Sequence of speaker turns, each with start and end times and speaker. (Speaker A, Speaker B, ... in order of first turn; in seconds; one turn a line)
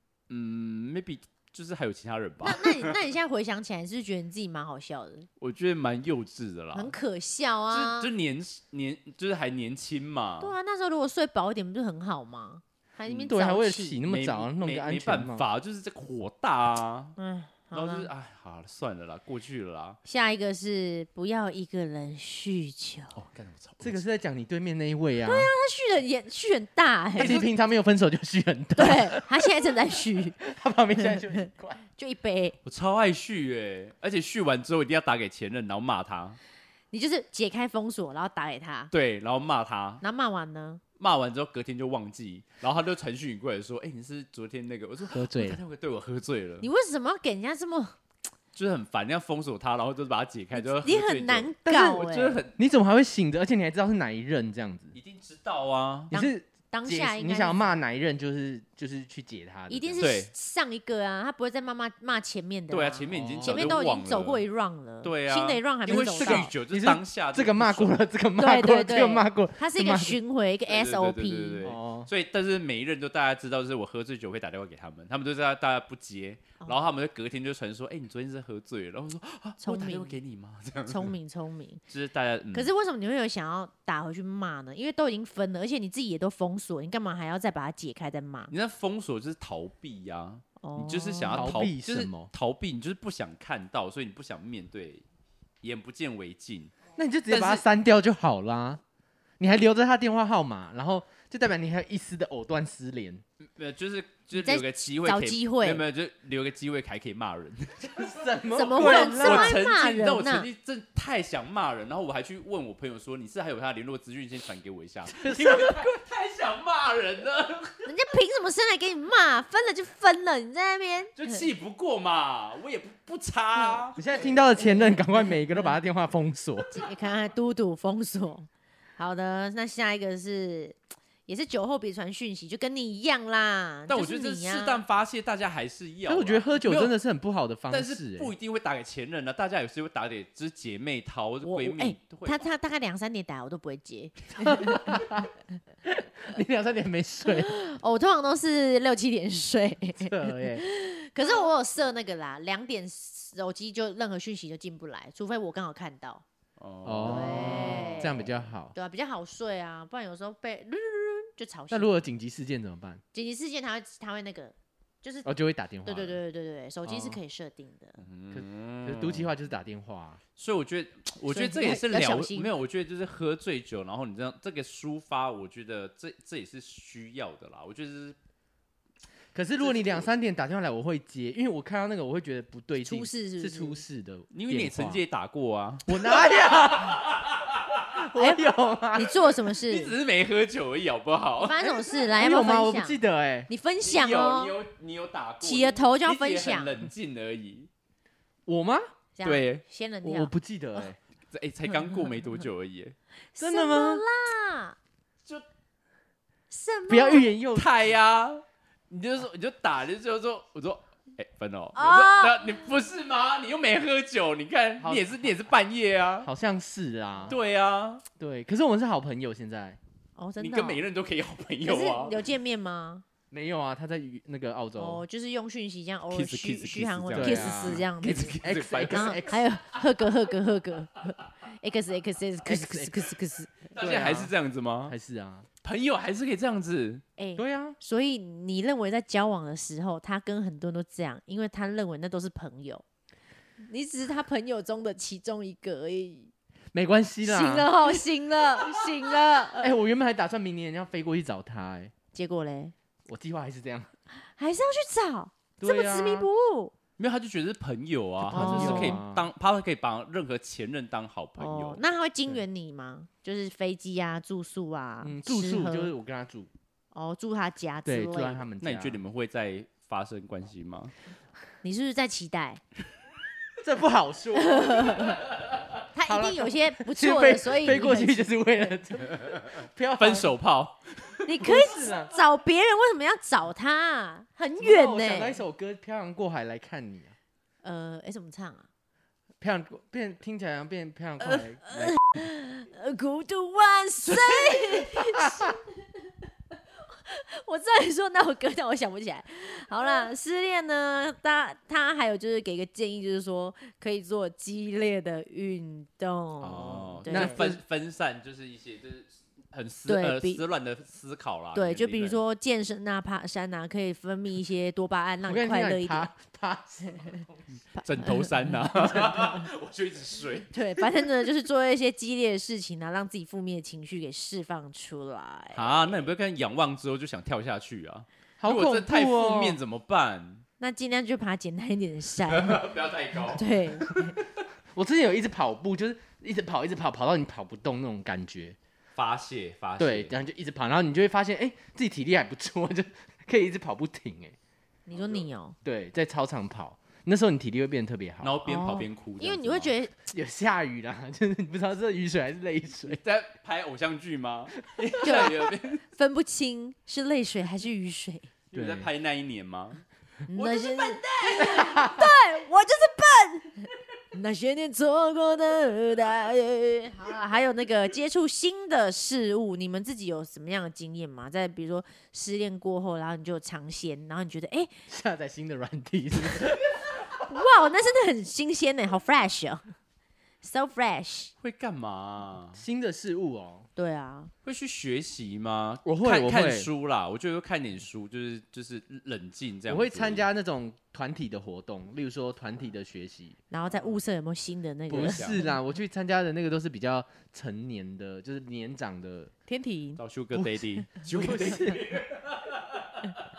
Speaker A: 0.3-2.9
Speaker B: 2.4-5.3
Speaker A: 5.4-6.9
Speaker B: 6.7-8.1
Speaker A: 7.7-10.5
Speaker B: 10.4-14.0
Speaker C: 13.3-15.4
Speaker A: 14.1-17.1
Speaker B: 17.2-18.1
Speaker A: 17.7-20.0
Speaker B: 20.0-23.2
Speaker A: 23.1-24.0
Speaker C: 23.8-25.5
Speaker B: 25.2-27.4
Speaker C: 27.2-31.8
Speaker A: 27.2-27.4
Speaker B: 28.8-30.4
Speaker B: 31.0-32.6
Speaker A: 32.6-36.4
Speaker B: 36.9-38.9
Speaker A: 38.9-40.0
Speaker B: 40.0-40.8
Speaker A: 41.0-46.7
Speaker C: 45.1-45.6
Speaker B: 46.6-48.0
Speaker A: 48.5-52.5
Speaker B: 50.5-52.4
Speaker C: 51.6-55.0
Speaker A: 54.9-56.1
Speaker B: 56.1-57.7
Speaker C: 56.1-60.1
Speaker B: 59.7-66.5
Speaker A: 60.0-60.3
Speaker A: 62.7-64.4
Speaker C: 63.1-63.8
Speaker A: 65.0-68.0
Speaker C: 65.9-70.2
Speaker B: 68.4-71.6
Speaker A: 70.7-81.1
Speaker C: 71.6-72.1
Speaker B: 79.6-80.2
Speaker B: 80.9-81.8
Speaker A: 81.9-82.7
Speaker B: 82.5-88.5
Speaker A: 88.5-95.0
Speaker B: 90.6-91.5
Speaker C: 91.3-92.3
Speaker A: 95.6-96.7
Speaker C: 97.0-98.8
Speaker A: 97.3-97.6
Speaker C: 99.4-103.2
Speaker A: 103.5-117.8
Speaker B: 104.3-105.8
Speaker C: 107.9-109.5
Speaker B: 108.5-110.5
Speaker C: 115.1-116.0
Speaker B: 117.8-121.4
Speaker A: 121.2-124.0
Speaker C: 124.0-126.7
Speaker B: 126.7-134.8
Speaker A: 133.9-136.9
Speaker C: 136.1-138.3
Speaker A: 137.7-142.4
Speaker B: 141.4-144.8
Speaker C: 144.3-145.3
Speaker C: 145.8-147.5
Speaker B: 147.3-156.2
Speaker C: 150.0-150.6
Speaker A: 156.6-158.3
Speaker C: 156.8-158.7
Speaker B: 157.0-162.0
Speaker C: 161.7-163.0
Speaker B: 163.1-165.3
Speaker C: 165.2-166.2
Speaker B: 165.8-168.0
Speaker C: 166.8-167.2
Speaker A: 168.0-169.3
Speaker C: 168.3-170.2
Speaker A: 170.4-178.2
Speaker B: 171.3-172.5
Speaker C: 179.3-185.0
Speaker A: 179.6-180.0
Speaker B: 182.8-183.8
Speaker A: 184.3-187.9
Speaker C: 185.8-187.0
Speaker C: 187.9-189.2
Speaker B: 188.1-189.9
Speaker A: 189.5-192.1
Speaker B: 191.4-194.5
Speaker C: 192.2-193.5
Speaker A: 193.8-197.7
Speaker B: 195.4-196.9
Speaker C: 198.4-198.8
Speaker B: 199.2-200.8
Speaker A: 199.2-199.6
Speaker C: 200.0-201.0
Speaker A: 201.3-202.9
Speaker B: 203.3-204.8
Speaker C: 203.4-204.0
Speaker B: 206.5-207.3
Speaker C: 206.9-207.9
Speaker A: 207.5-216.3
Speaker B: 211.7-212.6
Speaker C: 214.8-215.3
Speaker C: 216.2-217.4
Speaker A: 217.3-218.0
Speaker C: 218.2-219.8
Speaker B: 220.2-220.8
Speaker A: 220.4-222.2
Speaker B: 221.6-223.0
Speaker C: 223.3-225.0
Speaker B: 224.8-233.7
Speaker A: 226.1-229.2
Speaker C: 227.1-229.4
Speaker C: 232.4-232.9
Speaker A: 233.7-234.9
Speaker C: 233.8-234.3
Speaker C: 234.9-235.5
Speaker A: 235.6-237.0
Speaker B: 237.2-242.8
Speaker C: 237.4-237.8
Speaker B: 243.6-246.3
Speaker C: 246.7-247.7
Speaker B: 247.2-249.8
Speaker C: 249.6-251.9
Speaker B: 252.1-252.7
Speaker C: 253.1-253.9
Speaker B: 254.1-256.7
Speaker C: 255.6-256.3
Speaker A: 257.0-261.8
Speaker C: 258.2-259.3
Speaker B: 258.3-259.0
Speaker B: 261.4-265.9
Speaker C: 265.0-266.5
Speaker B: 266.9-268.4
Speaker C: 267.8-269.0
Speaker A: 268.6-270.9
Speaker B: 271.6-272.6
Speaker C: 273.6-275.2
Speaker B: 274.3-275.2
Speaker B: 275.9-278.3
Speaker C: 276.1-280.3
Speaker A: 279.2-281.2
Speaker B: 281.2-285.4
Speaker C: 281.4-282.1
Speaker C: 284.6-287.1
Speaker B: 287.6-288.7
Speaker C: 289.4-292.0
Speaker B: 291.2-295.6
Speaker C: 294.9-295.5
Speaker B: 296.9-307.5
Speaker A: 306.4-312.2
Speaker C: 307.1-307.6
Speaker B: 309.9-310.4
Speaker B: 311.5-316.1
Speaker C: 315.2-317.4
Speaker B: 316.8-317.2
Speaker B: 317.8-318.5
Speaker A: 317.8-320.5
Speaker C: 318.7-319.4
Speaker B: 320.5-326.1
Speaker A: 325.5-330.4
Speaker C: 328.4-329.6
Speaker B: 330.6-332.6
Speaker A: 332.3-333.4
Speaker B: 333.3-334.1
Speaker C: 334.7-338.6
Speaker A: 338.9-340.1
Speaker C: 339.8-344.4
Speaker B: 344.9-345.6
Speaker C: 345.6-348.3
Speaker A: 348.2-349.7
Speaker B: 348.4-349.9
Speaker C: 350.1-353.0
Speaker A: 352.9-355.8
Speaker C: 354.7-355.3
Speaker B: 355.0-358.3
Speaker A: 358.5-361.6
Speaker C: 358.5-358.9
Speaker B: 360.3-374.7
Speaker C: 361.4-362.1
Speaker C: 374.9-376.7
Speaker B: 377.2-379.7
Speaker B: 380.4-381.3
Speaker A: 381.4-382.6
Speaker C: 382.5-383.7
Speaker B: 383.8-384.3
Speaker A: 384.4-390.2
Speaker C: 385.9-386.7
Speaker C: 389.7-393.4
Speaker B: 393.5-395.5
Speaker C: 394.9-399.3
Speaker A: 394.9-395.4
Speaker B: 399.5-400.0
Speaker A: 400.0-402.9
Speaker C: 400.3-402.0